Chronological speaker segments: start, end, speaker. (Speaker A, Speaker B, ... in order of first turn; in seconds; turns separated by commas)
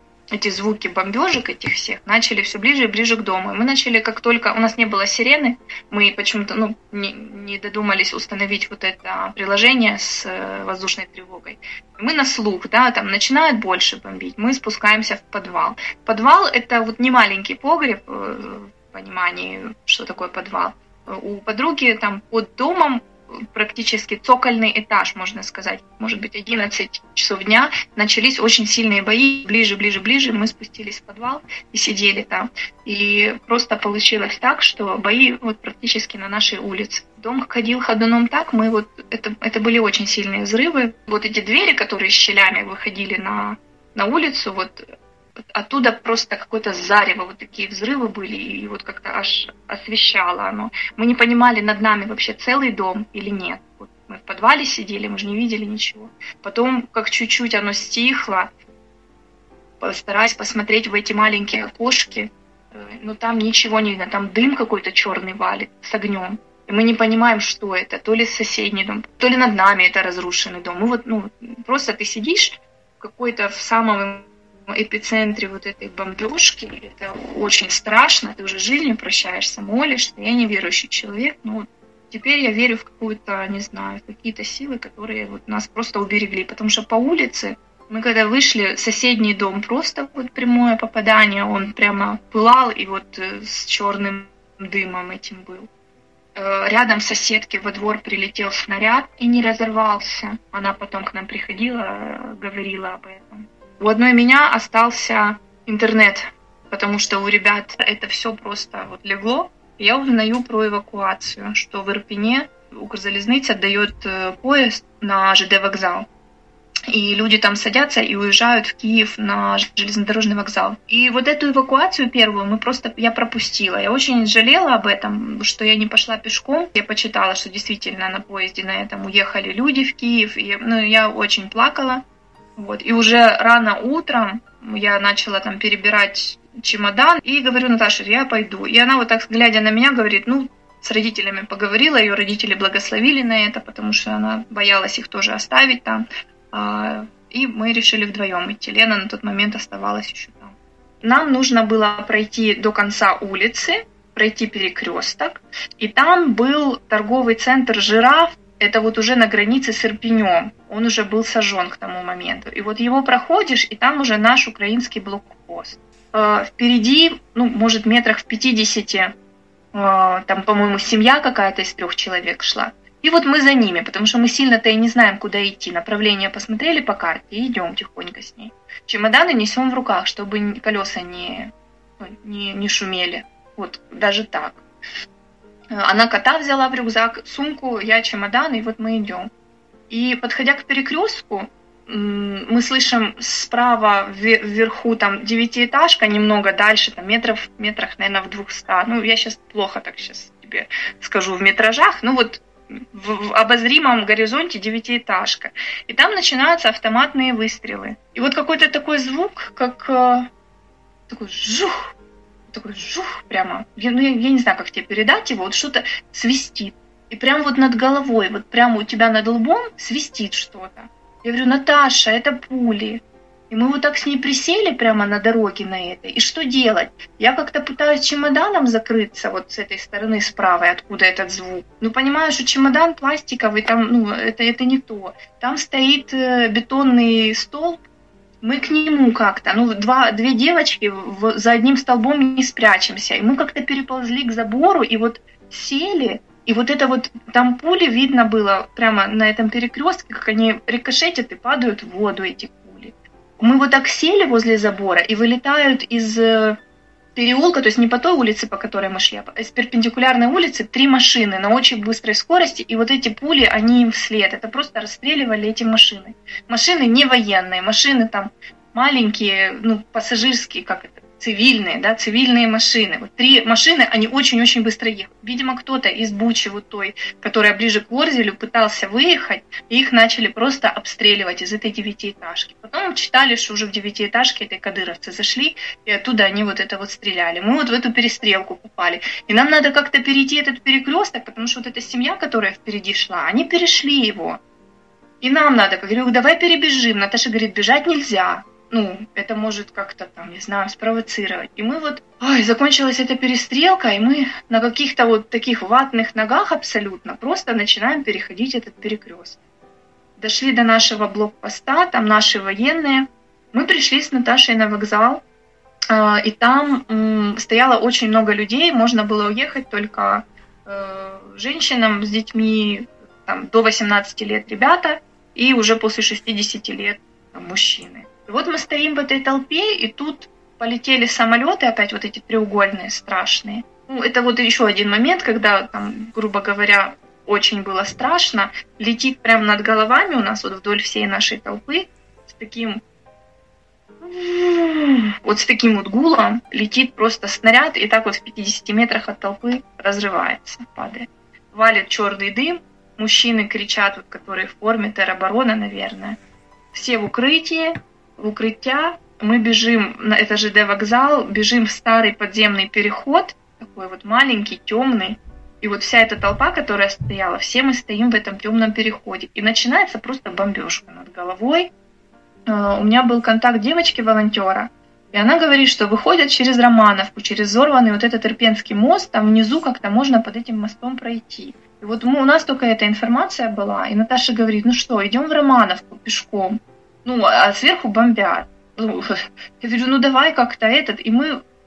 Speaker A: 0.3-44.9, Speaker A: 45.5-58.5, Speaker A: 59.8-95.7, Speaker A: 96.3-116.1, Speaker A: 116.9-132.0, Speaker A: 132.6-169.1, Speaker A: 169.7-184.6, Speaker A: 185.7-189.3, Speaker A: 189.9-210.3, Speaker A: 211.1-211.9, Speaker A: 212.5-237.8, Speaker A: 238.4-256.6, Speaker A: 257.1-294.4, Speaker A: 295.2-309.4, Speaker A: 310.2-315.2, Speaker A: 315.9-342.8, Speaker A: 344.0-356.2, Speaker A: 356.7-371.7, Speaker A: 372.5-391.4